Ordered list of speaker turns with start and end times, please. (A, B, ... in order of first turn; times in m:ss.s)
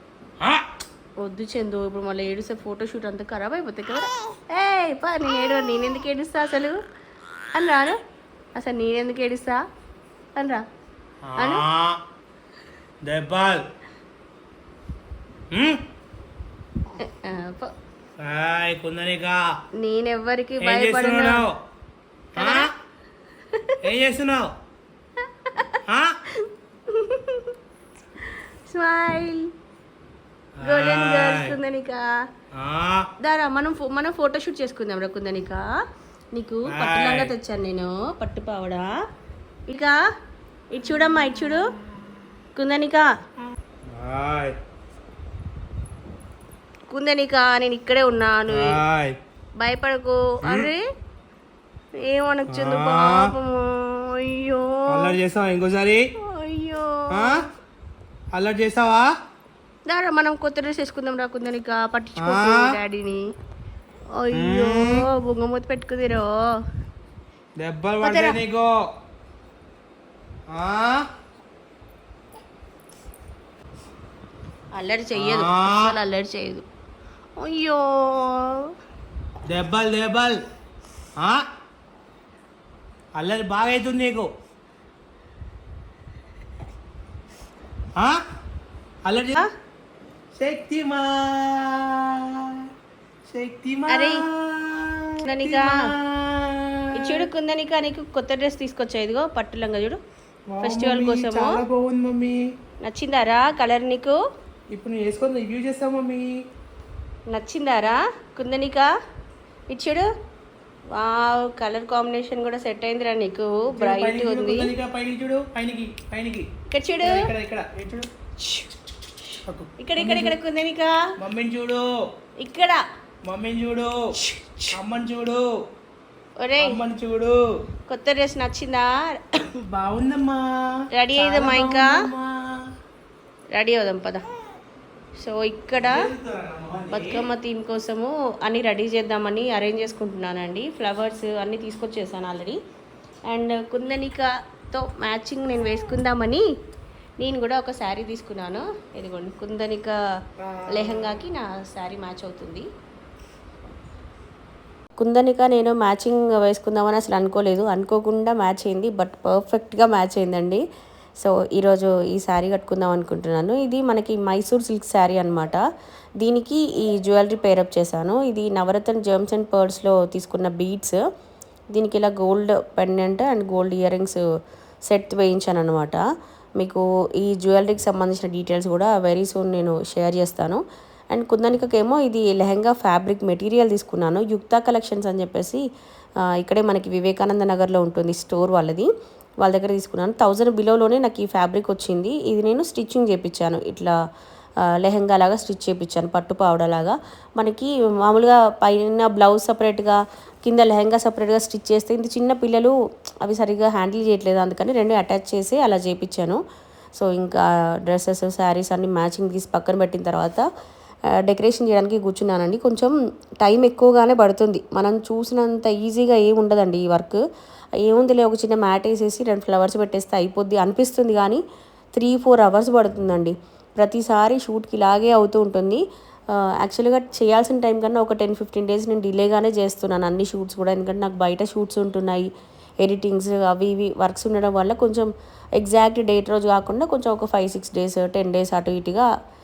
0:01.2-0:06.8 A
0:07.5-0:08.0 A
0:08.6-0:09.6 A
0:10.4-0:10.6 A
0:11.2-0:12.0 B
0:11.4-0:11.6 A
0:13.0-0:13.6 B
0:15.5-0:15.8 B
0:17.0-0:17.7 A
0:18.2-0:19.6 B
0:19.8-0:21.4 A
0:20.6-0:21.6 B
0:22.4-0:22.7 B
0:22.4-0:22.7 A
0:23.5-0:23.8 A
0:23.8-0:24.5 B
0:25.9-0:26.2 B
0:26.4-0:27.5 A
0:28.7-0:29.4 A
0:30.6-0:31.6 B
0:30.6-0:32.0 A
0:32.5-0:33.1 B
0:33.2-0:35.6 A
0:36.3-0:38.9 A
0:36.7-0:37.3 B
0:39.7-0:40.0 A
0:40.7-0:41.6 A
0:42.6-0:43.1 A
0:43.9-0:44.6 B
0:46.9-0:48.8 A
0:48.5-0:49.2 B
0:49.6-0:50.8 A
0:50.4-0:50.7 B
0:52.1-0:55.2 A
0:52.5-0:53.3 B
0:54.9-0:56.0 B
0:56.2-0:57.4 A
0:57.1-0:57.4 B
0:58.3-0:59.1 B
0:59.9-1:03.2 A
1:02.2-1:02.8 B
1:04.1-1:06.4 A
1:04.3-1:05.0 B
1:07.6-1:08.7 B
1:08.0-1:08.4 A
1:10.5-1:11.1 B
1:14.7-1:16.6 A
1:15.1-1:15.9 B
1:17.4-1:18.7 A
1:19.4-1:20.4 B
1:21.2-1:21.4 B
1:23.2-1:24.3 B
1:28.0-1:28.2 B
1:29.0-1:29.4 B
1:30.3-1:32.7 B
1:33.3-1:37.2 B
1:33.9-1:34.2 A
1:35.2-1:35.8 A
1:36.9-1:40.0 A
1:40.5-1:42.4 B
1:40.6-1:41.6 A
1:42.8-1:44.2 A
1:44.7-1:46.3 B
1:47.3-1:48.9 A
1:49.7-1:50.1 A
1:50.9-1:54.7 A
1:53.7-1:56.5 B
1:56.7-1:57.2 A
1:57.0-1:58.1 B
1:58.4-1:58.7 A
1:59.4-2:00.4 B
1:59.8-2:01.0 A
2:01.2-2:01.8 B
2:02.4-2:02.8 A
2:03.2-2:04.0 B
2:04.2-2:04.8 A
2:04.7-2:05.4 B
2:06.4-2:06.8 A
2:06.6-2:07.4 B
2:07.9-2:09.4 A
2:09.6-2:10.5 B
2:10.9-2:12.0 A
2:11.1-2:12.6 B
2:13.5-2:14.2 A
2:15.2-2:16.0 A
2:15.8-2:17.2 B
2:16.9-2:22.6 A
2:23.3-2:26.4 A
2:27.2-2:30.0 A
2:30.6-2:32.7 A
2:35.0-2:40.6 A
2:41.2-2:45.6 A
2:46.2-2:51.0 A
2:51.7-2:54.2 A
2:54.9-2:56.0 A
2:56.6-3:05.6 A
3:06.2-3:08.9 A
3:09.4-3:14.0 A
3:14.6-3:26.4 A
3:27.0-3:30.4 A
3:31.1-3:37.2 A
3:37.8-3:41.4 A
3:42.0-3:52.3 A
3:52.8-3:59.1 A